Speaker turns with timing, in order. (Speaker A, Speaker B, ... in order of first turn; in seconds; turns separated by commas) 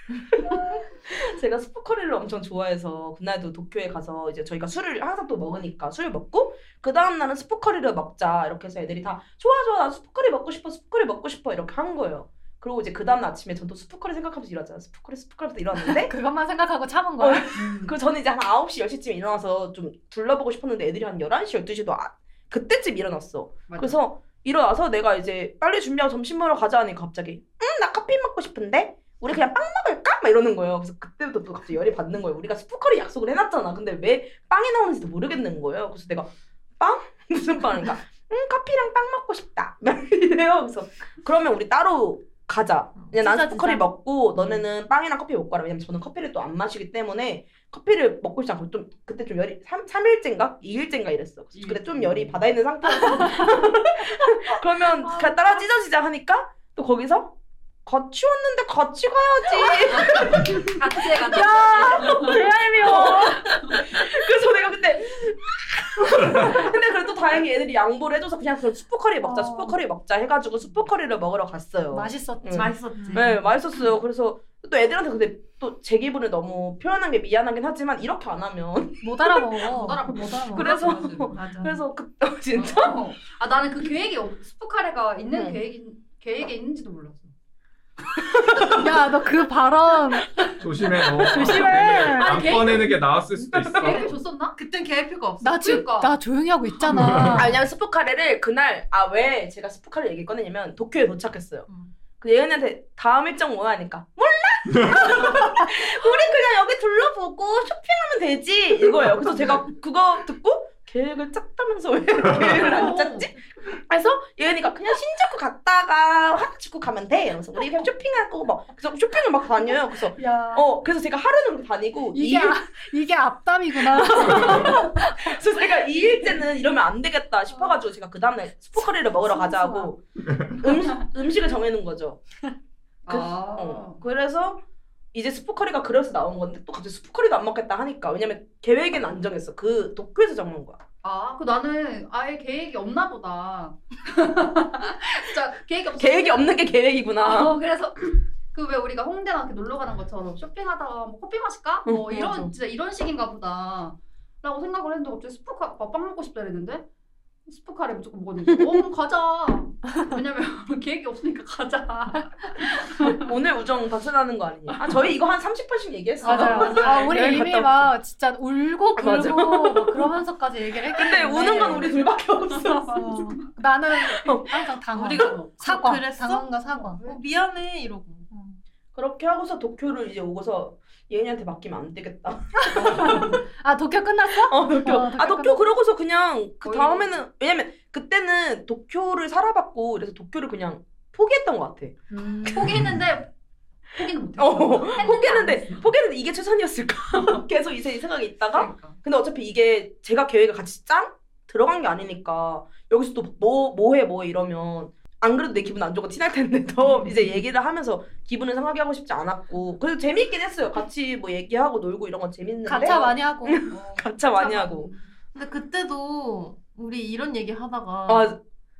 Speaker A: 0.4-16.1, Speaker B: 15.8-17.6, Speaker A: 17.2-79.7, Speaker C: 17.5-17.9, Speaker C: 23.7-24.0, Speaker D: 43.0-43.8, Speaker B: 43.3-43.8, Speaker C: 51.5-52.4, Speaker B: 53.0-53.5, Speaker C: 55.0-55.6, Speaker C: 59.6-63.8, Speaker B: 61.3-63.4, Speaker B: 69.2-69.8, Speaker B: 71.9-73.2, Speaker D: 72.5-73.5, Speaker B: 79.0-80.9, Speaker C: 79.7-81.8, Speaker A: 80.5-83.0, Speaker D: 81.3-81.8, Speaker C: 82.5-87.3, Speaker A: 85.3-85.6, Speaker A: 88.2-88.9, Speaker B: 88.7-90.5, Speaker E: 90.6-94.1, Speaker A: 91.3-92.8, Speaker B: 91.3-92.6, Speaker C: 91.3-93.0, Speaker A: 93.4-94.1, Speaker C: 93.7-94.6, Speaker D: 94.5-95.8, Speaker B: 95.4-97.6, Speaker C: 95.6-96.2, Speaker E: 96.9-97.5, Speaker A: 97.3-101.7, Speaker A: 102.2-122.6, Speaker C: 112.6-113.2, Speaker B: 112.8-113.0, Speaker B: 120.2-120.7, Speaker B: 122.1-125.3, Speaker A: 123.8-132.2, Speaker B: 129.3-129.9, Speaker C: 130.6-131.1, Speaker C: 133.1-134.0, Speaker A: 133.1-134.6, Speaker A: 135.1-140.8, Speaker C: 141.0-146.6, Speaker A: 146.0-147.6, Speaker C: 147.2-156.8, Speaker A: 151.9-152.5, Speaker C: 157.5-163.3, Speaker A: 163.1-167.9, Speaker C: 166.2-167.1, Speaker B: 166.2-171.9, Speaker D: 166.3-167.1, Speaker A: 169.0-170.1, Speaker A: 170.9-173.1, Speaker C: 171.5-171.9, Speaker C: 172.5-173.4, Speaker B: 172.9-177.0, Speaker A: 174.1-174.7, Speaker D: 174.9-178.3, Speaker C: 175.0-175.3, Speaker C: 176.7-177.2, Speaker B: 178.3-178.6, Speaker A: 178.9-183.4, Speaker B: 182.6-185.6, Speaker C: 182.8-183.3, Speaker A: 184.5-192.0, Speaker C: 186.6-187.2, Speaker B: 192.1-192.9, Speaker C: 192.5-193.3, Speaker C: 193.9-195.9, Speaker A: 194.4-214.9, Speaker C: 197.1-197.4, Speaker C: 198.5-199.0, Speaker B: 212.7-213.6, Speaker C: 212.8-213.1, Speaker C: 213.7-215.1, Speaker D: 215.3-218.4, Speaker A: 218.1-218.4